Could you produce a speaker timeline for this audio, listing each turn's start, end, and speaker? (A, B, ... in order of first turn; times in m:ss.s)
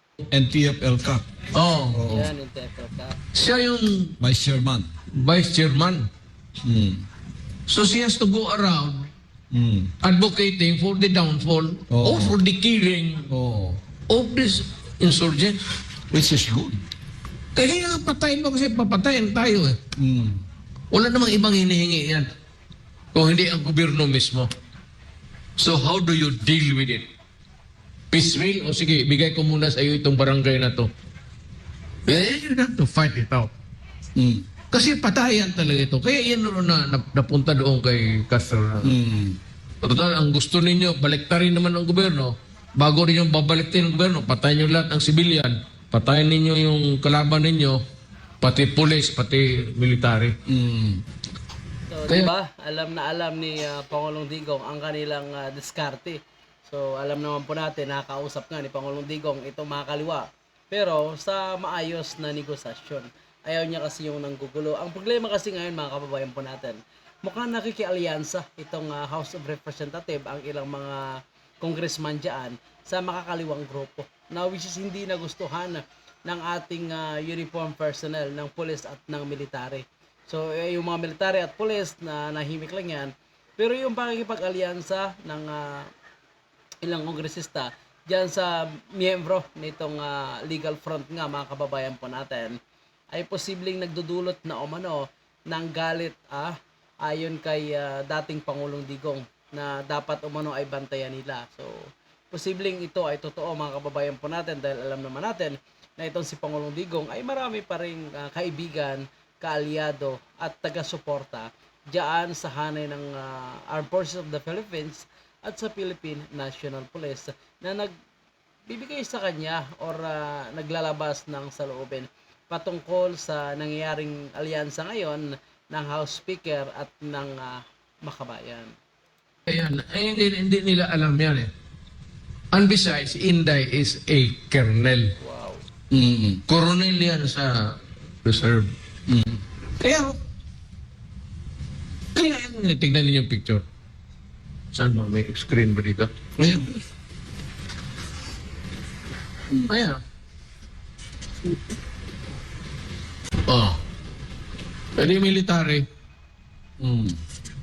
0:00.3-0:01.3 A
0:01.5-0:02.0 B
0:01.9-0:02.3 A
0:02.1-0:03.2 C
0:03.3-0:04.2 B
0:04.2-0:04.9 A
0:05.1-0:06.1 B
0:06.6-0:07.0 A
0:07.7-0:09.1 B
0:09.5-0:09.9 A
0:10.0-0:13.3 B
0:11.9-0:12.4 A
0:13.3-0:13.8 A
0:14.1-0:15.6 B
0:16.1-0:16.8 A
0:17.6-0:19.8 B
0:20.0-0:20.4 A
0:20.9-0:22.3 B
0:23.1-0:24.5 B
0:25.6-0:27.1 B
0:28.1-0:30.9 B
0:32.1-0:33.5 B
0:34.2-0:34.5 A
0:34.7-0:38.9 B
0:38.8-0:39.4 A
0:39.8-0:47.8 B
0:48.4-0:50.4 B
0:50.5-0:51.0 A
0:51.9-1:11.0 C
1:11.6-1:25.9 C
1:26.8-1:32.6 C
1:33.1-1:41.8 C
1:42.3-1:57.9 C
1:58.7-2:08.7 C
2:09.5-2:11.5 B
2:12.5-2:15.1 B
2:15.2-2:15.6 C
2:15.9-2:16.4 A
2:16.5-2:18.7 B
2:19.1-2:19.4 A
2:19.8-2:20.2 B
2:22.1-2:23.6 B
2:24.7-2:26.3 B
2:26.4-2:26.7 A
2:29.6-2:30.0 B
2:33.5-2:33.8 B
2:35.0-2:35.8 B
2:36.8-2:37.2 A